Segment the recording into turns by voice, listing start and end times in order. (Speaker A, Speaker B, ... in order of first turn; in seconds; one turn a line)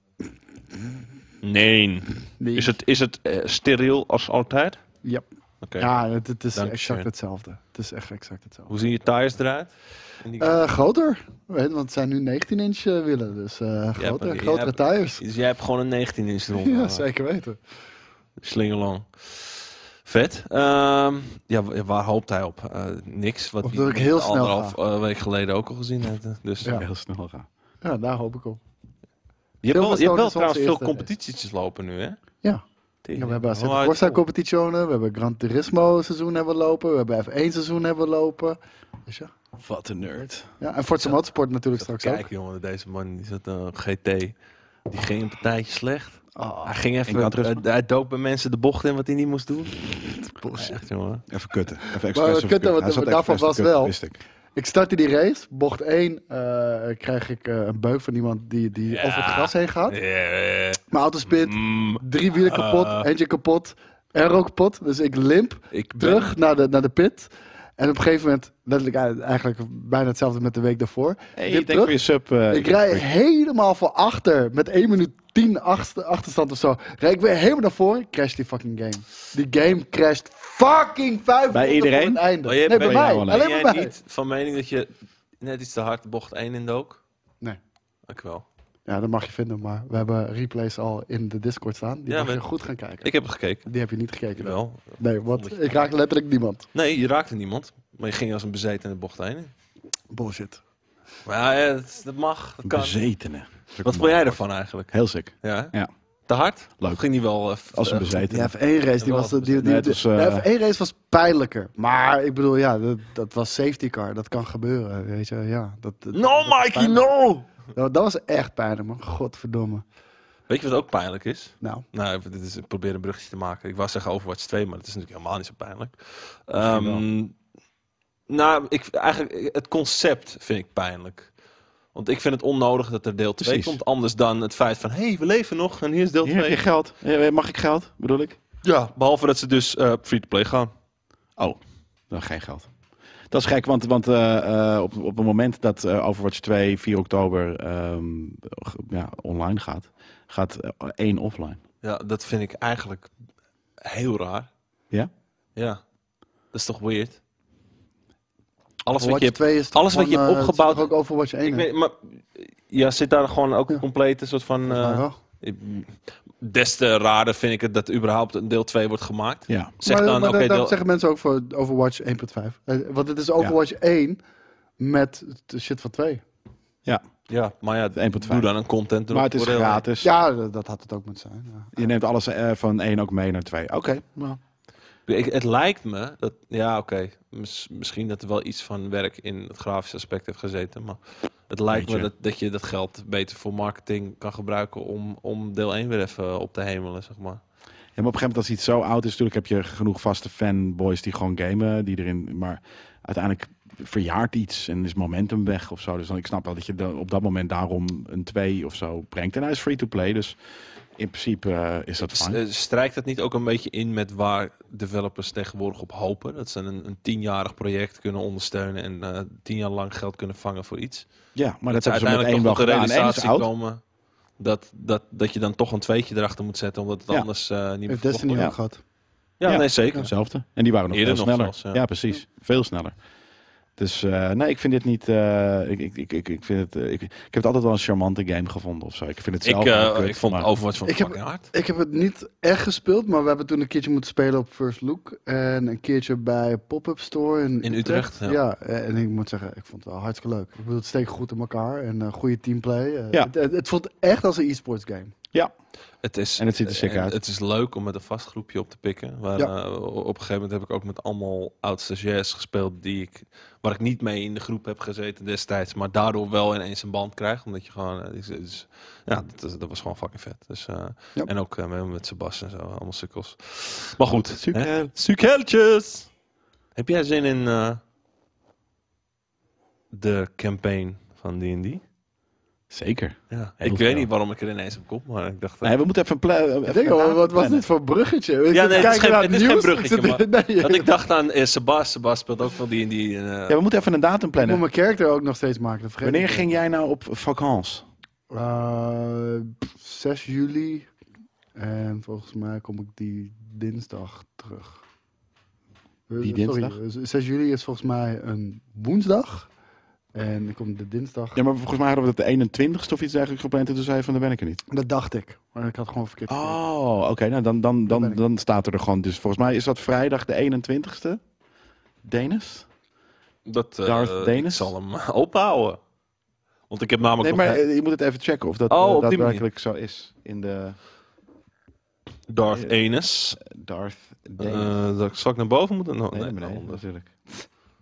Speaker A: 1.4-4.8
Speaker B: 2.4-2.8
Speaker A: 5.6-5.9
Speaker B: 5.8-8.7
Speaker A: 6.5-7.1
Speaker A: 8.7-10.6
Speaker B: 10.4-15.2
Speaker A: 14.0-17.1
Speaker B: 16.5-17.6
Speaker A: 18.4-26.8
Speaker B: 23.6-24.8
Speaker C: 26.6-27.4
Speaker B: 27.8-28.6
Speaker A: 29.6-32.2
Speaker B: 29.7-31.1
Speaker A: 33.0-34.2
Speaker B: 33.1-39.3
Speaker C: 39.6-40.5
Speaker B: 40.6-42.3
Speaker A: 41.8-44.4
Speaker A: 44.9-49.9
Speaker B: 46.3-46.8
Speaker C: 47.1-47.6
Speaker B: 50.2-50.8
Speaker A: 50.5-51.2
Speaker C: 51.3-54.2
Speaker B: 52.0-54.0
Speaker B: 54.5-60.0
Speaker A: 58.9-63.1
Speaker B: 60.9-72.0
Speaker A: 65.7-66.3
Speaker C: 71.3-73.0
Speaker B: 72.5-83.9
Speaker C: 81.5-83.4
Speaker A: 82.4-87.0
Speaker A: 88.1-88.5
Speaker B: 88.9-93.1
Speaker A: 92.1-92.4
Speaker A: 93.0-93.7
Speaker B: 93.6-96.7
Speaker A: 94.4-95.8
Speaker A: 96.7-99.5
Speaker B: 100.1-100.6
Speaker A: 101.2-103.0
Speaker C: 102.6-105.9
Speaker A: 103.8-105.7
Speaker A: 106.3-108.2
Speaker C: 107.7-108.5
Speaker B: 108.2-117.1
Speaker A: 109.0-109.6
Speaker C: 109.6-110.5
Speaker A: 116.1-117.5
Speaker B: 117.7-119.8
Speaker A: 120.5-127.3
Speaker C: 126.6-127.0
Speaker A: 128.3-131.3
Speaker A: 131.9-136.6
Speaker C: 133.4-133.8
Speaker C: 136.2-138.4
Speaker A: 138.6-140.7
Speaker C: 142.1-142.7
Speaker C: 143.3-151.6
Speaker A: 151.8-153.1
Speaker A: 153.8-154.5
Speaker A: 155.6-155.8
Speaker A: 156.5-157.2
Speaker A: 158.8-160.9
Speaker B: 158.9-161.7
Speaker A: 161.4-170.7
Speaker B: 164.7-165.2
Speaker B: 169.8-174.2
Speaker B: 174.8-176.2
Speaker A: 177.3-179.8
Speaker C: 177.9-178.5
Speaker C: 179.1-180.1
Speaker B: 180.0-181.9
Speaker C: 181.7-184.4
Speaker A: 185.1-197.4
Speaker C: 191.7-192.1
Speaker C: 198.0-210.3
Speaker C: 211.0-212.4
Speaker A: 212.1-221.1
Speaker C: 221.3-223.5
Speaker A: 221.7-223.8
Speaker A: 224.4-228.5
Speaker B: 227.9-228.8
Speaker A: 229.4-230.1
Speaker C: 229.4-232.9
Speaker A: 230.9-231.8
Speaker C: 233.8-240.5
Speaker A: 239.4-241.5
Speaker B: 240.8-255.1
Speaker A: 247.6-248.4
Speaker A: 256.0-276.1
Speaker C: 256.4-257.2
Speaker C: 274.4-274.9
Speaker A: 276.7-277.8
Speaker A: 279.9-281.8
Speaker C: 282.7-284.1
Speaker A: 283.3-285.7
Speaker C: 285.6-287.6
Speaker B: 286.6-290.9
Speaker A: 288.5-293.6
Speaker C: 293.5-294.6
Speaker B: 294.4-296.5
Speaker C: 296.0-297.8
Speaker B: 298.3-300.9
Speaker B: 301.5-304.8
Speaker B: 306.1-309.5
Speaker C: 306.2-306.8
Speaker B: 310.1-311.4
Speaker C: 311.3-314.6
Speaker B: 314.7-316.6
Speaker C: 316.3-321.2
Speaker B: 317.9-318.2
Speaker C: 322.0-322.6
Speaker A: 323.4-325.8
Speaker C: 323.8-324.7
Speaker A: 326.7-327.6
Speaker C: 327.2-330.8
Speaker A: 328.7-329.4
Speaker A: 332.3-333.4
Speaker C: 333.4-334.7
Speaker A: 334.4-336.8
Speaker C: 336.1-337.3